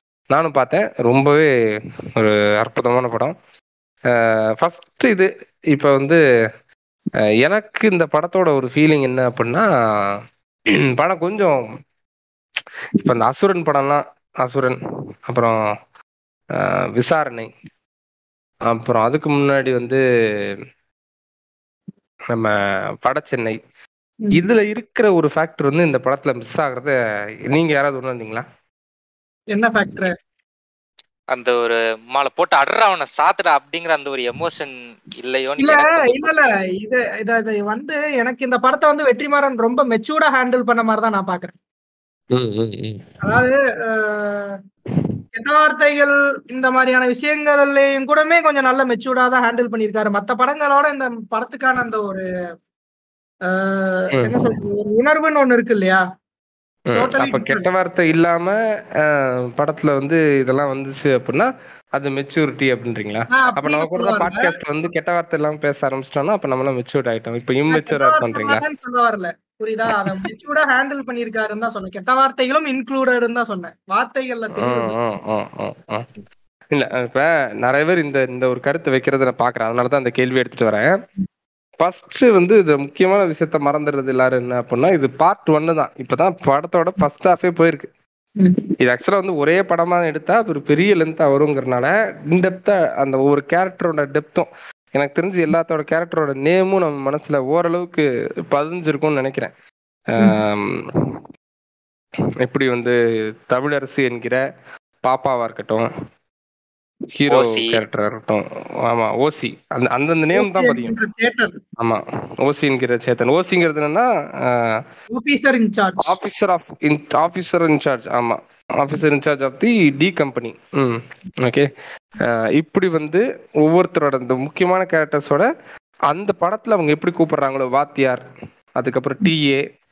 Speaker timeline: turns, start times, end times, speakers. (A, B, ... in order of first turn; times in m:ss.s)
0:00.3-0:01.5 A
0:02.2-0:03.4 A
0:04.1-0:06.2 A
0:07.4-0:10.2 A
0:10.9-0:11.6 A
0:13.0-0:15.6 A
0:16.6-0:17.5 A
0:18.7-0:20.5 A
0:22.3-0:23.6 A
0:24.3-0:26.9 A
0:27.5-0:28.4 A
0:29.5-0:30.1 B
0:31.3-0:36.4 C
0:35.6-0:41.5 B
0:42.3-0:43.0 A
0:43.2-0:44.6 B
0:45.4-0:52.2 B
0:53.5-0:56.0 B
0:54.1-0:54.4 A
0:56.9-1:08.6 A
0:56.9-0:57.7 B
1:03.3-1:04.5 B
1:07.7-1:14.9 B
1:10.0-1:10.3 A
1:14.6-1:16.1 A
1:16.7-1:21.0 A
1:21.8-1:27.9 A
1:28.4-1:28.7 B
1:28.8-1:39.5 A
1:40.2-1:41.2 A
1:42.4-1:43.0 A
1:43.5-1:44.4 A
1:45.0-1:45.9 A
1:47.2-1:50.9 A
1:47.3-1:47.8 C
1:50.4-1:51.5 B
1:51.8-1:54.8 A
1:55.1-1:56.1 B
1:56.0-2:05.5 A
2:06.1-2:08.2 A
2:08.8-2:09.6 A